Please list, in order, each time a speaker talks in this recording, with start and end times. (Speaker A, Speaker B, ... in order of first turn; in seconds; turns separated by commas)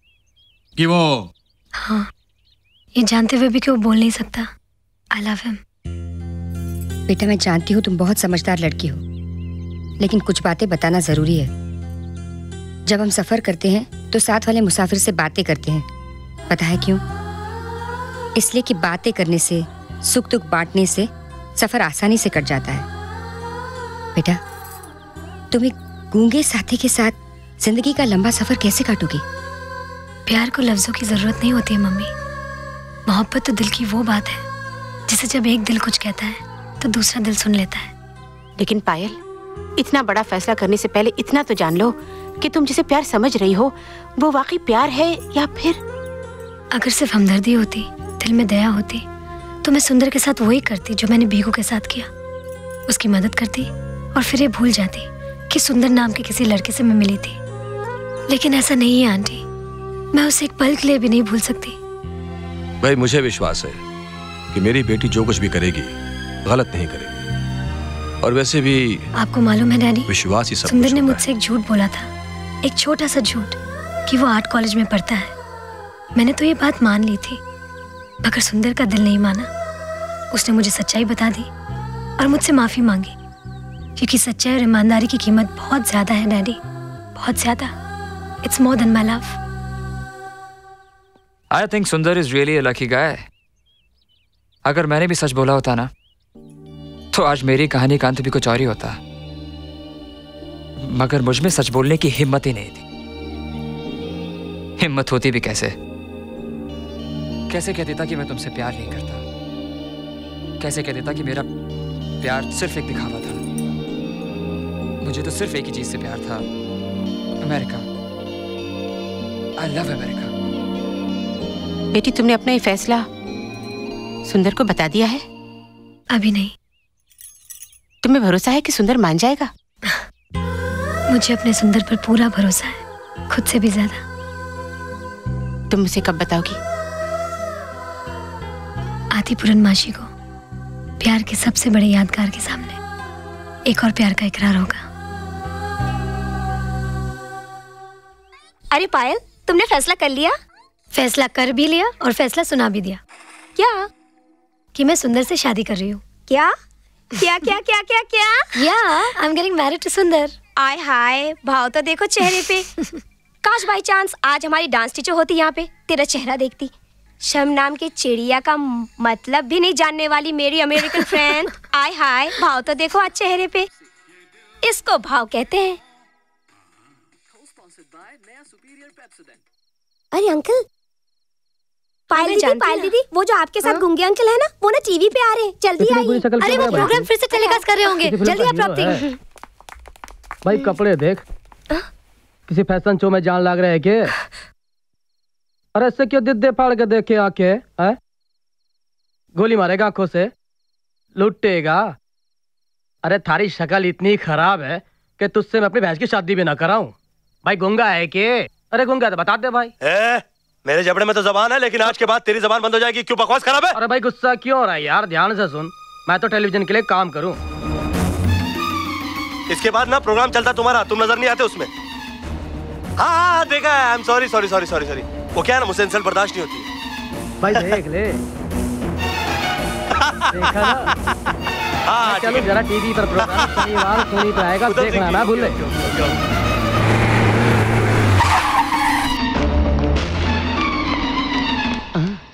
Speaker A: 1.8-2.1, Speaker A: 3.0-4.5, Speaker A: 5.1-5.6, Speaker B: 7.1-9.0, Speaker B: 10.0-11.5, Speaker B: 12.8-15.8, Speaker B: 16.5-17.0, Speaker B: 18.4-22.9, Speaker B: 25.5-29.2, Speaker A: 30.3-32.1, Speaker A: 33.1-34.4, Speaker A: 35.1-37.9, Speaker C: 38.6-39.2, Speaker C: 39.8-45.8, Speaker A: 46.7-49.0, Speaker A: 49.6-52.1, Speaker A: 52.9-57.4, Speaker A: 58.3-59.4, Speaker A: 60.1-61.8, Speaker D: 62.8-63.8, Speaker D: 64.5-67.2, Speaker D: 68.2-69.1, Speaker A: 69.1-70.1, Speaker D: 70.1-71.2, Speaker A: 70.6-72.1, Speaker A: 72.6-73.5, Speaker A: 74.1-75.3, Speaker A: 76.2-77.4, Speaker A: 78.2-79.5, Speaker A: 80.3-81.5, Speaker A: 82.2-83.1, Speaker A: 84.0-86.6, Speaker A: 87.1-87.7, Speaker A: 88.4-89.4, Speaker E: 91.5-93.2, Speaker E: 94.6-95.9, Speaker E: 97.1-99.0, Speaker E: 100.8-102.8, Speaker E: 104.8-105.7, Speaker E: 107.5-109.2, Speaker E: 110.6-111.5, Speaker E: 112.2-113.4, Speaker E: 115.0-116.5, Speaker E: 117.4-117.9, Speaker E: 119.6-120.3, Speaker C: 121.9-123.0, Speaker C: 124.2-125.2, Speaker A: 126.1-126.5, Speaker C: 128.0-129.5, Speaker A: 131.1-134.0, Speaker C: 135.7-136.6, Speaker A: 139.1-140.1, Speaker A: 141.0-142.8, Speaker A: 143.7-144.8, Speaker F: 148.7-150.3, Speaker A: 150.9-153.0, Speaker A: 154.7-156.0, Speaker F: 156.3-156.5, Speaker F: 157.2-158.6, Speaker A: 158.6-160.3, Speaker F: 160.6-162.7, Speaker F: 163.4-173.7, Speaker F: 174.6-175.8, Speaker F: 180.1-180.6, Speaker F: 182.1-187.6, Speaker A: 182.2-182.8, Speaker G: 185.8-187.0, Speaker A: 186.4-189.0, Speaker G: 188.0-189.0, Speaker G: 190.4-191.2, Speaker G: 192.5-194.1, Speaker G: 195.8-198.0, Speaker G: 199.3-200.3, Speaker G: 201.2-201.9, Speaker G: 203.0-206.9, Speaker G: 207.4-209.7, Speaker H: 209.8-213.8, Speaker G: 213.8-217.4, Speaker H: 219.5-221.7, Speaker H: 223.0-226.7, Speaker G: 227.4-228.2, Speaker G: 230.3-230.9, Speaker H: 231.8-232.5, Speaker G: 232.0-235.5, Speaker H: 233.2-233.5, Speaker H: 234.7-236.2